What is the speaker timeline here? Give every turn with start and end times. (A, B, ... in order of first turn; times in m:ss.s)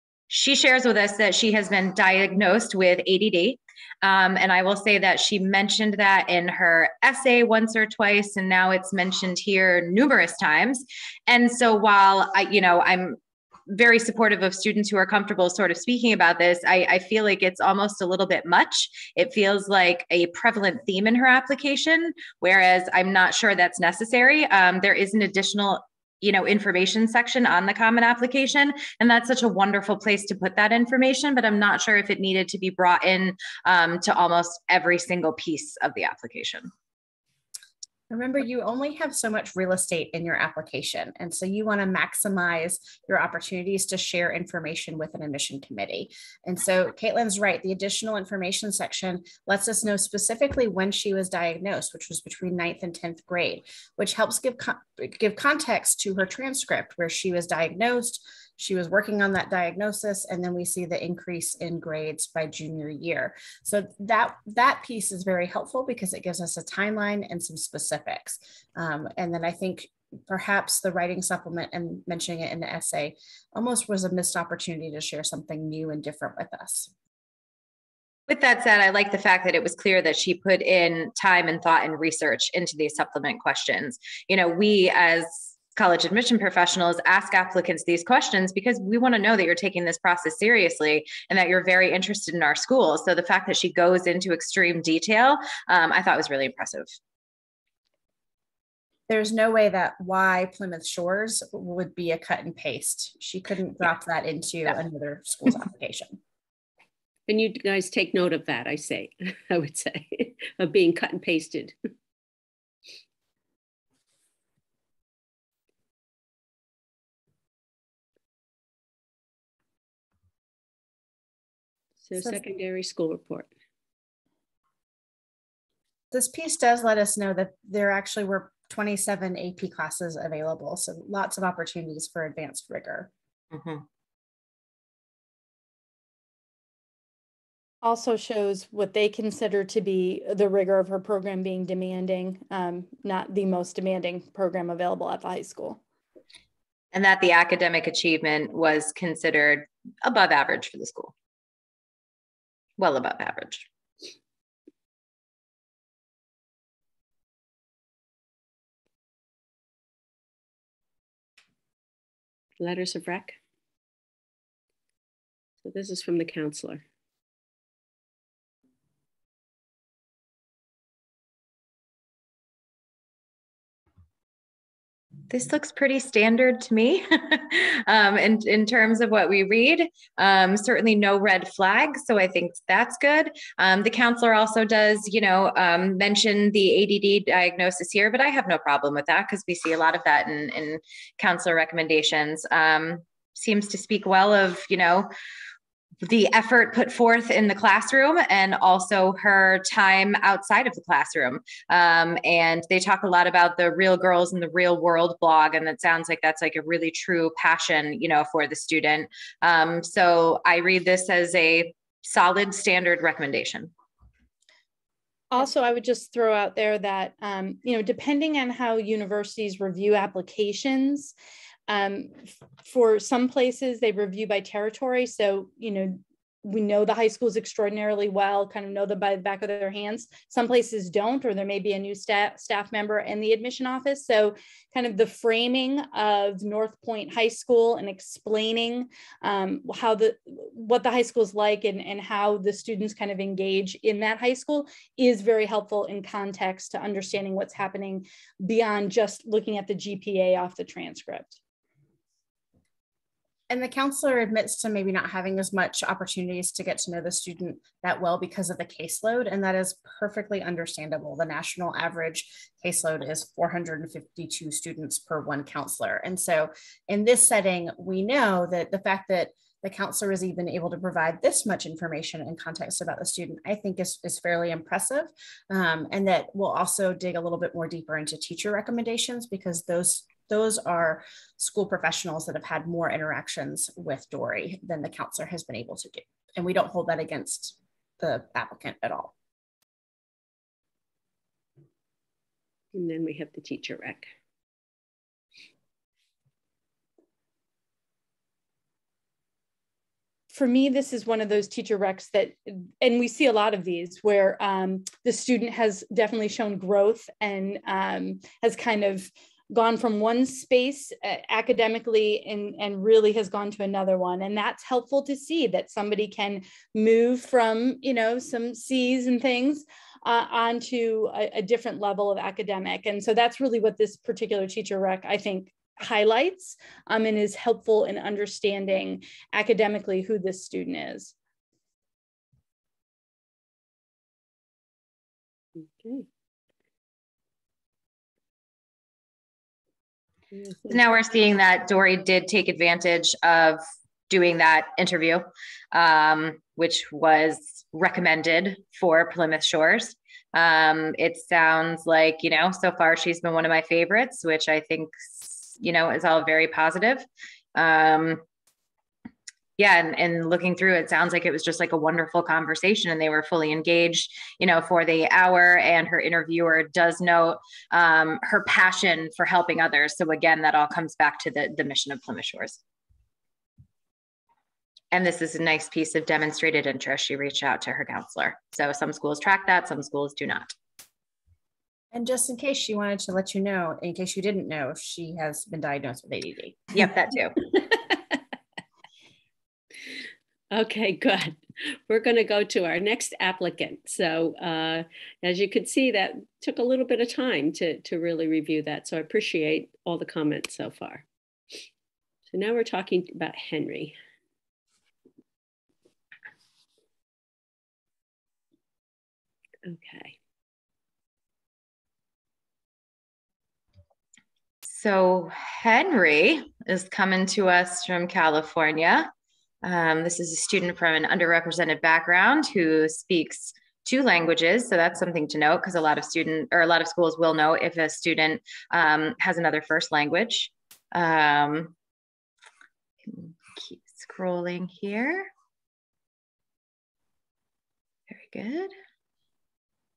0:00.3-0:36.7 A
0:38.1-1:16.9 B
1:18.3-1:36.9 A
1:39.1-1:46.2 B
1:47.3-1:51.7 C
2:02.0-2:03.5 C
2:06.1-2:13.1 B
2:13.5-2:13.8 A
2:17.8-2:25.8 D
2:26.9-2:31.1 A
2:32.8-2:33.7 A
2:42.6-2:43.4 C
2:45.6-2:46.8 C
2:55.3-3:15.1 A
3:16.0-3:33.7 A
3:35.3-3:41.1 D
3:41.7-4:11.4 D
4:13.5-4:49.1 B
4:52.7-4:54.1 C
5:00.3-5:31.1 D
5:35.8-5:36.1 C
5:40.3-5:40.8 C
5:40.7-5:58.2 A
5:59.6-6:12.6 A
6:14.9-6:20.5 A
6:21.9-6:26.9 B
6:26.7-6:27.4 A
6:30.5-6:41.0 C
6:42.3-6:44.0 C
6:49.6-6:50.2 C
6:54.6-6:59.1 A
6:59.6-7:11.7 A
7:13.0-7:15.3 A
7:18.1-7:18.7 A